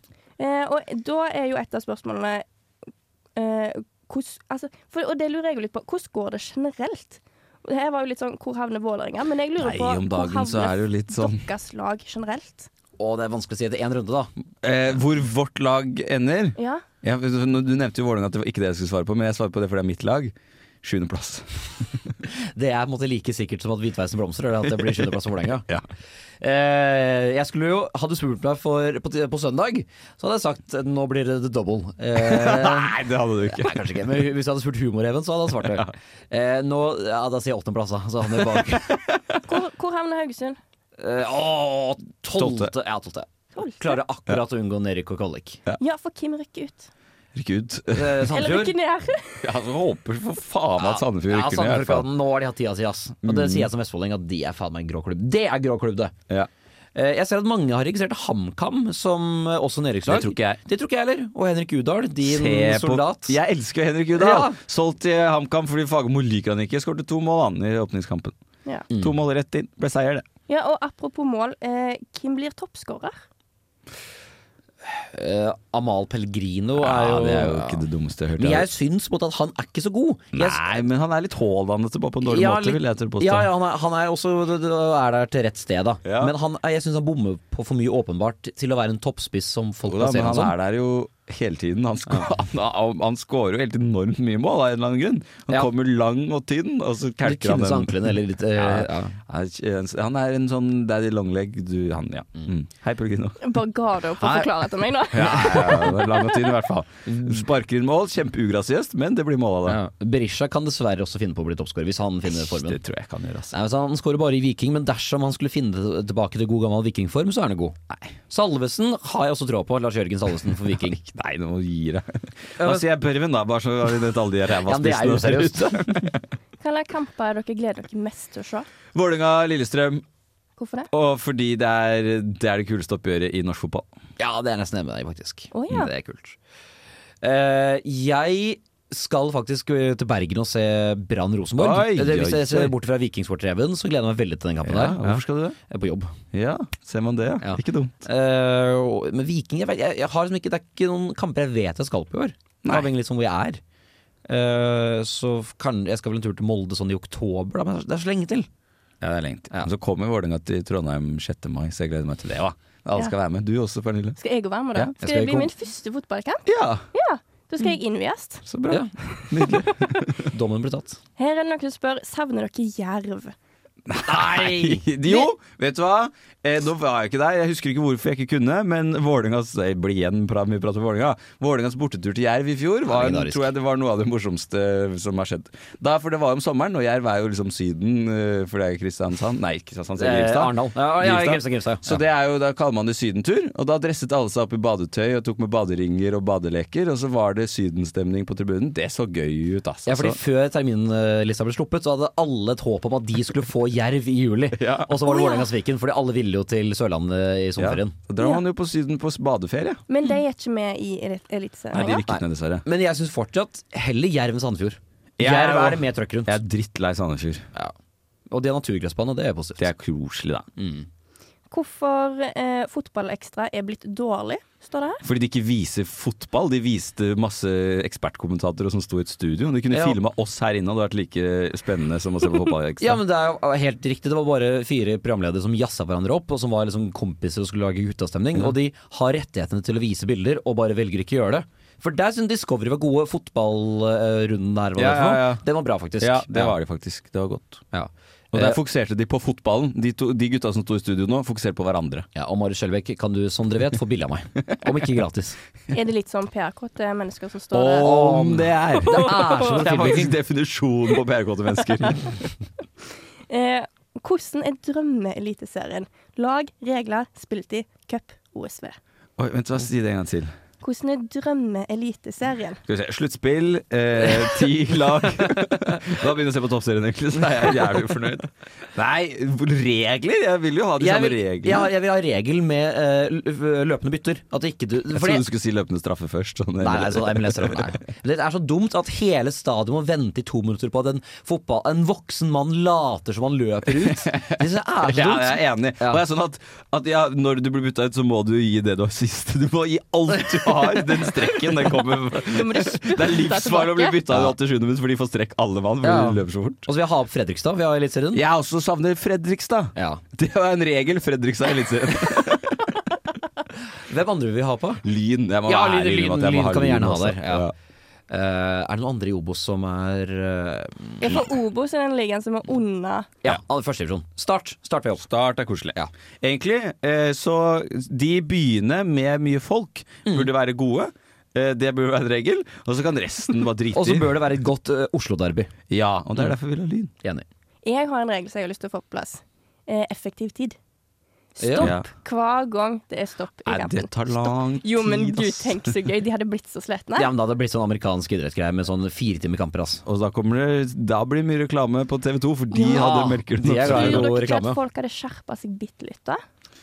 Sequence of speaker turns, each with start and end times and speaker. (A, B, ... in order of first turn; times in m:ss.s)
0:00.4-0:02.4 A
0:03.4-0:12.7 A
0:09.6-0:11.4 B
0:13.0-0:14.3 C
0:14.6-0:22.1 B
0:16.6-0:16.8 A
0:22.4-0:25.7 C
0:26.4-0:39.0 C
0:32.2-0:33.9 B
0:39.4-0:40.6 A
0:41.0-0:45.6 C
0:42.4-0:42.7 B
0:43.6-0:43.9 A
0:45.8-0:46.9 A
0:47.4-0:48.4 B
0:47.9-0:48.8 C
0:48.3-0:49.4 A
0:49.4-0:52.1 B
0:50.8-0:56.1 C
0:53.2-0:53.7 B
0:57.0-1:03.4 C
1:00.1-1:00.5 B
1:02.2-1:08.3 B
1:04.2-1:04.6 C
1:08.9-1:09.2 C
1:09.0-1:10.2 B
1:10.5-1:13.2 A
1:14.9-1:17.8 C
1:16.8-1:18.7 B
1:18.4-1:20.8 C
1:20.3-1:23.5 B
1:22.2-1:30.6 C
1:26.0-1:26.3 B
1:29.9-1:43.5 B
1:37.2-1:39.2 C
1:43.4-1:46.3 A
1:44.2-1:44.5 B
1:45.1-1:49.8 B
1:47.1-1:47.4 C
1:49.7-1:52.8 C
1:52.3-1:53.5 B
1:53.5-1:57.8 C
1:58.3-2:01.0 C
2:01.0-2:06.2 B
2:02.6-2:02.9 C
2:04.6-2:06.1 C
2:06.6-2:08.7 A
2:09.0-2:10.0 B
2:10.6-2:10.9 A
2:10.9-2:13.9 B
2:14.2-2:16.4 C
2:15.5-2:15.9 A
2:17.2-2:26.2 C
2:21.6-2:22.7 B
2:24.6-2:25.6 B
2:26.3-2:28.0 B
2:27.4-2:33.6 C
2:32.6-2:32.9 B
2:34.3-2:38.5 C
2:39.0-2:44.2 B
2:44.2-2:48.4 A
2:45.0-2:45.5 C
2:46.5-2:46.9 B
2:48.5-2:50.3 B
2:48.7-2:49.5 C
2:50.2-2:51.0 C
2:51.2-2:53.4 A
2:53.9-3:20.2 B
2:54.0-2:54.9 C
3:02.9-3:03.5 C
3:10.0-3:12.0 C
3:19.9-3:28.0 C
3:24.5-3:24.9 B
3:25.1-3:25.5 A
3:27.6-3:29.8 B
3:29.9-3:32.0 A
3:31.7-3:32.6 B
3:31.8-3:36.4 C
3:35.2-3:37.5 B
3:38.3-3:39.7 C
3:39.6-3:40.5 B
3:40.6-3:40.9 C
3:41.5-3:45.0 A
3:45.0-3:53.0 B
3:49.7-3:50.0 C
3:52.8-4:06.6 C
4:04.8-4:05.4 B
4:06.0-4:07.6 B
4:07.7-4:08.6 C
4:08.3-4:12.1 B
4:12.2-4:15.4 C
4:14.5-4:14.8 B
4:15.7-4:18.0 A
4:17.5-4:22.3 B
4:17.6-4:20.2 C
4:18.8-4:19.4 A
4:23.3-4:28.8 A
4:29.2-4:30.3 B
4:30.6-4:32.6 A
4:32.7-4:41.7 B
4:40.8-4:45.2 C
4:44.9-4:47.8 B
4:46.6-4:56.0 C
4:53.8-5:06.7 B
5:00.3-5:00.8 C
5:02.2-5:04.0 A
5:04.1-5:04.3 C
5:05.8-5:08.2 C
5:08.1-5:12.8 B
5:09.8-5:10.0 C
5:13.9-5:14.8 C
5:14.8-5:17.5 B
5:15.5-5:17.5 C
5:18.1-5:21.2 C
5:21.0-5:23.1 A
5:23.2-5:25.1 C
5:25.1-5:34.2 B
5:33.7-5:35.5 C
5:35.7-5:36.9 B
5:37.6-5:40.6 A
5:41.4-5:47.1 A
5:41.4-5:41.7 C
5:41.6-5:41.9 B
5:43.5-5:45.7 B
5:47.0-5:49.8 C
5:49.9-5:54.1 B
5:52.5-5:52.9 A
5:52.6-5:54.6 C
5:53.6-5:56.2 A